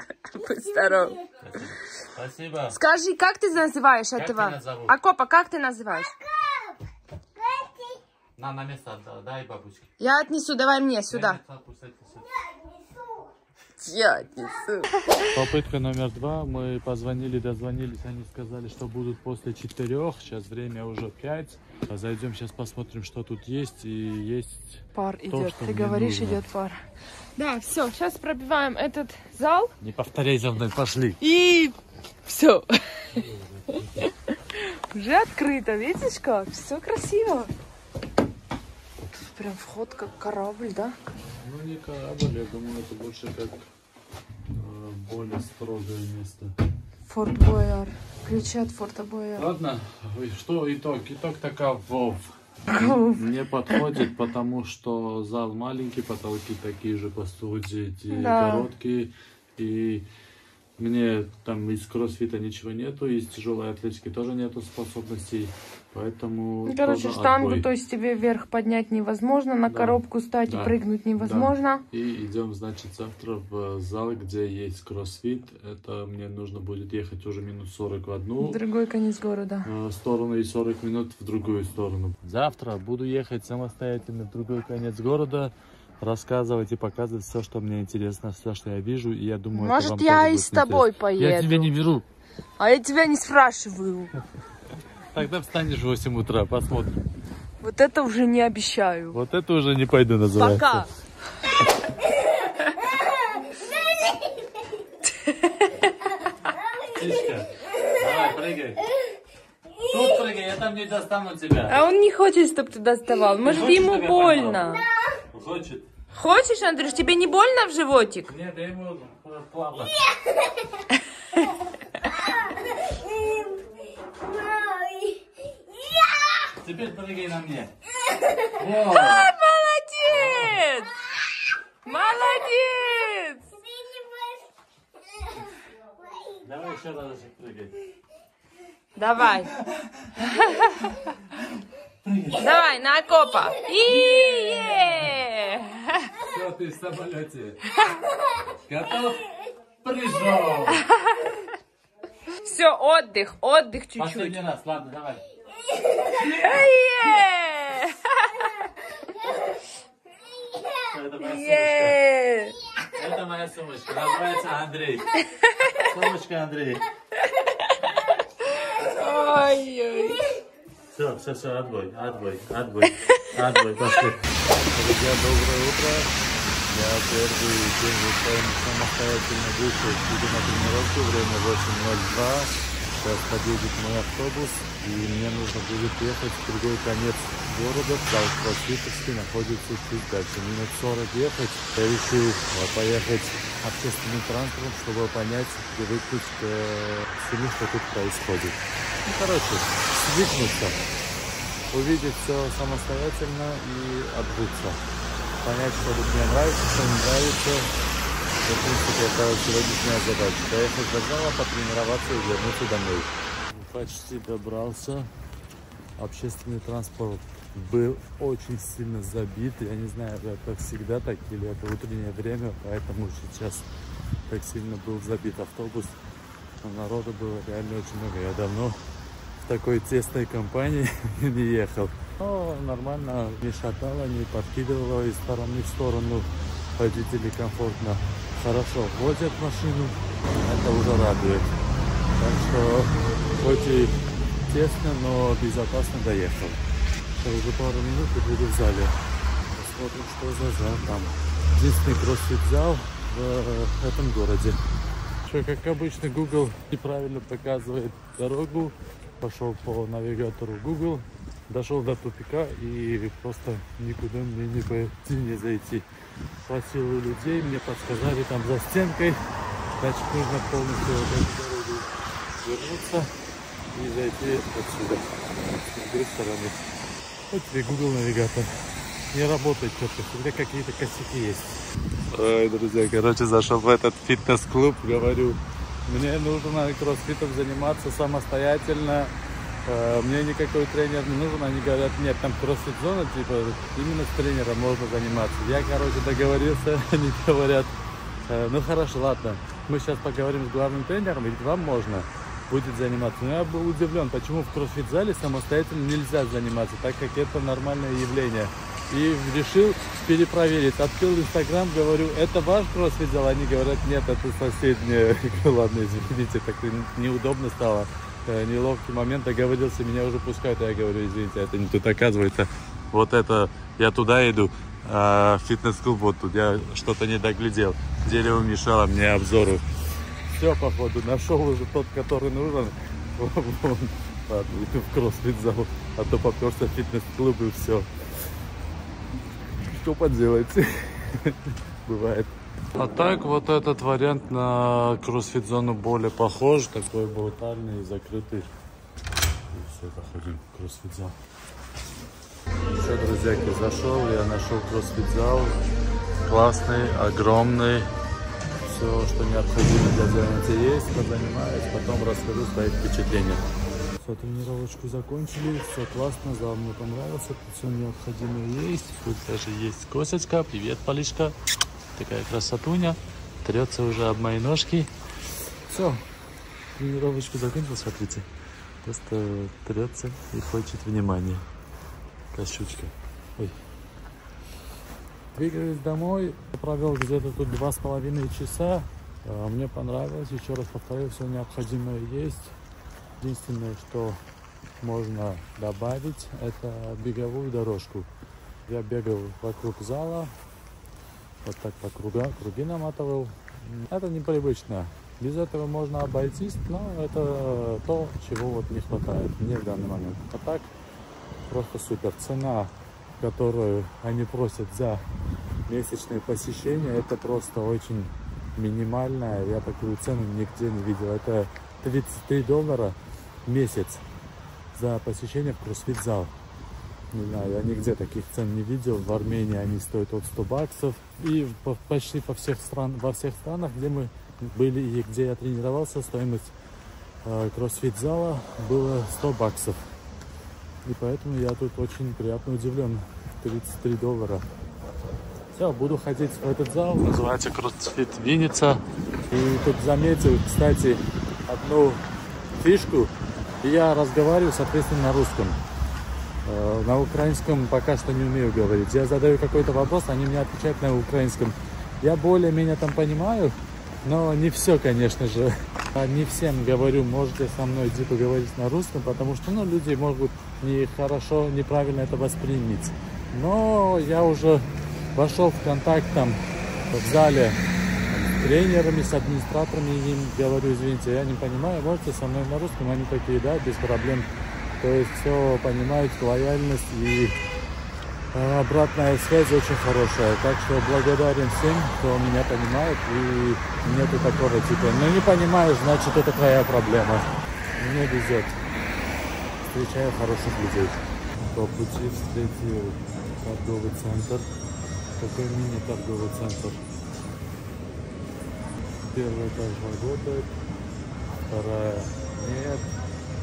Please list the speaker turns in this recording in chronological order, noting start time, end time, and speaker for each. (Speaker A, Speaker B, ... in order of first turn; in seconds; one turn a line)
Speaker A: 0.3-1.2
Speaker B: 0.4-1.3
Speaker C: 1.4-2.8
Speaker A: 2.7-6.1
Speaker C: 4.2-5.0
Speaker B: 6.0-6.8
Speaker B: 7.3-8.0
Speaker C: 8.4-9.9
Speaker A: 10.0-11.4
Speaker C: 11.1-12.3
Speaker B: 12.2-13.3
Speaker A: 13.8-15.3
Speaker C: 15.3-26.4
Speaker A: 24.9-26.8
Speaker A: 27.4-29.7
Speaker C: 29.8-31.2
Speaker A: 31.2-33.2
Speaker C: 33.1-34.1
Speaker A: 34.5-37.5
Speaker A: 39.2-40.9
Speaker C: 41.4-43.6
Speaker C: 44.5-46.5
Speaker A: 47.1-49.5
Speaker C: 49.4-60.1
Speaker A: 52.7-53.2
Speaker A: 58.1-58.7
Speaker C: 60.8-67.7
Speaker A: 66.7-71.8
Speaker C: 69.7-78.6
Speaker A: 78.4-79.7
Speaker C: 79.6-92.0
Speaker A: 89.5-91.7
Speaker A: 92.6-94.1
Speaker C: 95.1-97.0
Speaker A: 97.6-99.2
Speaker C: 99.1-100.9
Speaker A: 100.4-100.9
Speaker B: 103.5-104.7
Speaker A: 105.2-105.8
Speaker B: 106.5-107.1
Speaker C: 106.9-108.8
Speaker C: 109.8-111.8
Speaker A: 111.7-114.8
Speaker C: 113.4-114.8
Speaker C: 115.3-115.9
Speaker A: 116.1-118.3
Speaker C: 118.2-120.0
Speaker B: 122.1-126.5
Speaker C: 126.6-127.7
Speaker C: 128.6-129.3
Speaker A: 128.8-130.9
Speaker C: 130.1-130.7
Speaker A: 131.8-133.5
Speaker B: 133.5-134.5
Speaker B: 136.0-136.5
Speaker C: 136.4-137.8
Speaker A: 139.0-139.5
Speaker C: 139.6-140.1
Speaker A: 140.3-140.9
Speaker C: 142.0-142.5
Speaker A: 142.4-146.1
Speaker C: 143.9-145.2
Speaker C: 146.2-147.6
Speaker C: 148.7-149.2
Speaker C: 149.8-150.9
Speaker A: 152.4-154.4
Speaker C: 154.0-155.2
Speaker A: 156.1-158.3
Speaker B: 160.4-160.9
Speaker C: 160.9-162.0
Speaker A: 161.2-162.5
Speaker C: 162.9-165.1
Speaker A: 165.2-165.8
Speaker C: 165.8-166.9
Speaker A: 168.6-170.2
Speaker C: 170.9-176.1
Speaker C: 176.7-200.8
Speaker C: 201.7-204.8
Speaker C: 205.4-207.7
Speaker C: 208.4-215.1
Speaker C: 216.0-223.7
Speaker C: 224.3-226.0
Speaker C: 226.6-228.8
Speaker C: 229.4-241.5
Speaker C: 242.1-246.6
Speaker C: 247.1-248.9
Speaker C: 249.5-254.6
Speaker C: 255.2-265.9
Speaker C: 266.4-269.2
Speaker C: 269.8-273.1
Speaker C: 273.7-276.7
Speaker C: 277.3-281.6
Speaker C: 282.1-289.1
Speaker C: 289.6-329.6
Speaker C: 330.3-337.9
Speaker C: 339.6-348.5
Speaker C: 349.5-351.1
Speaker C: 352.6-355.6
Speaker C: 356.2-357.9
Speaker C: 358.6-363.4
Speaker C: 364.0-371.4
Speaker C: 371.9-374.9
Speaker C: 375.7-376.0
Speaker C: 376.7-378.3
Speaker C: 378.8-381.4
Speaker C: 382.3-383.6
Speaker C: 385.3-392.5
Speaker C: 393.2-394.2
Speaker C: 394.8-398.1
Speaker C: 398.7-400.3
Speaker C: 401.4-410.7
Speaker C: 411.5-415.0
Speaker C: 415.7-424.0
Speaker C: 424.7-426.3
Speaker C: 427.1-436.5
Speaker C: 437.2-439.8
Speaker C: 440.8-444.4
Speaker C: 445.5-452.0
Speaker C: 452.6-455.6
Speaker C: 456.4-476.4
Speaker C: 476.9-484.3
Speaker C: 484.8-487.4
Speaker C: 488.3-498.6
Speaker C: 499.6-504.5
Speaker C: 505.2-506.8
Speaker C: 509.0-510.5
Speaker C: 511.5-512.9